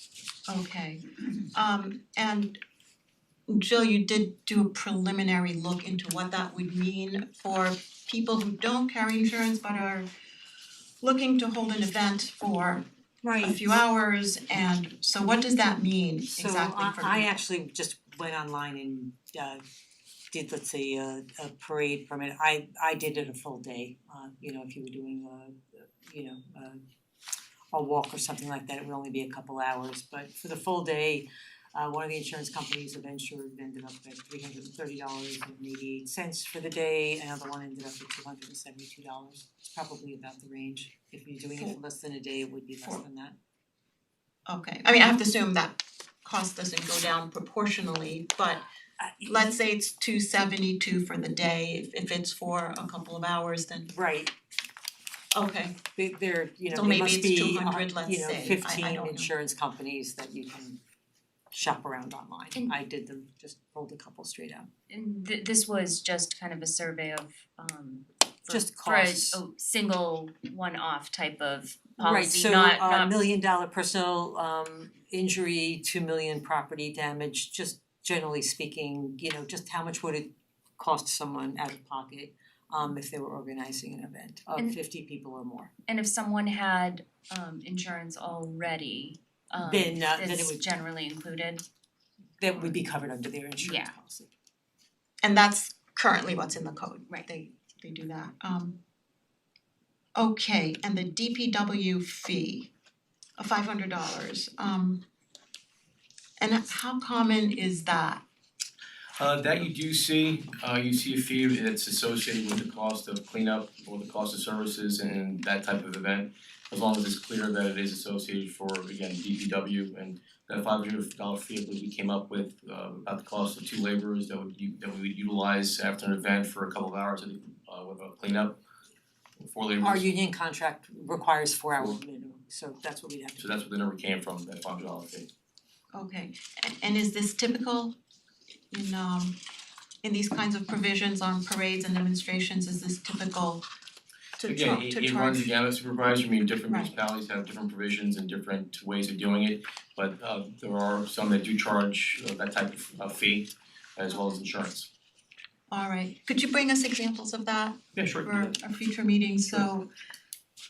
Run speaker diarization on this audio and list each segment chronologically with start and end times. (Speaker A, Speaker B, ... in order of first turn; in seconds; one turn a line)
Speaker A: 0.5-1.0
Speaker A: 1.5-2.6
Speaker A: 3.5-10.1
Speaker A: 11.0-12.8
Speaker B: 13.2-13.8
Speaker A: 13.4-17.4
Speaker B: 16.3-19.6
Speaker B: 20.3-26.8
Speaker B: 27.7-43.3
Speaker A: 44.5-48.6
Speaker B: 49.0-49.5
Speaker A: 49.2-53.9
Speaker B: 53.9-54.3
Speaker A: 55.3-55.8
Speaker B: 55.9-60.8
Speaker A: 56.7-59.3
Speaker B: 61.5-64.7
Speaker C: 64.9-73.2
Speaker B: 68.5-69.4
Speaker B: 72.0-85.7
Speaker C: 85.9-91.6
Speaker B: 89.6-90.6
Speaker B: 92.4-94.3
Speaker C: 93.6-93.9
Speaker A: 95.2-98.8
Speaker A: 100.2-102.7
Speaker A: 103.4-105.0
Speaker A: 106.4-108.2
Speaker D: 109.2-128.6
Speaker D: 129.4-130.1
Speaker B: 129.8-133.5
Speaker D: 133.4-135.3
Speaker A: 135.9-137.9
Speaker A: 138.7-139.3
Speaker A: 140.0-143.6
Speaker A: 144.4-145.5
Speaker D: 144.4-154.9
Speaker A: 155.7-159.9
Speaker D: 157.9-158.5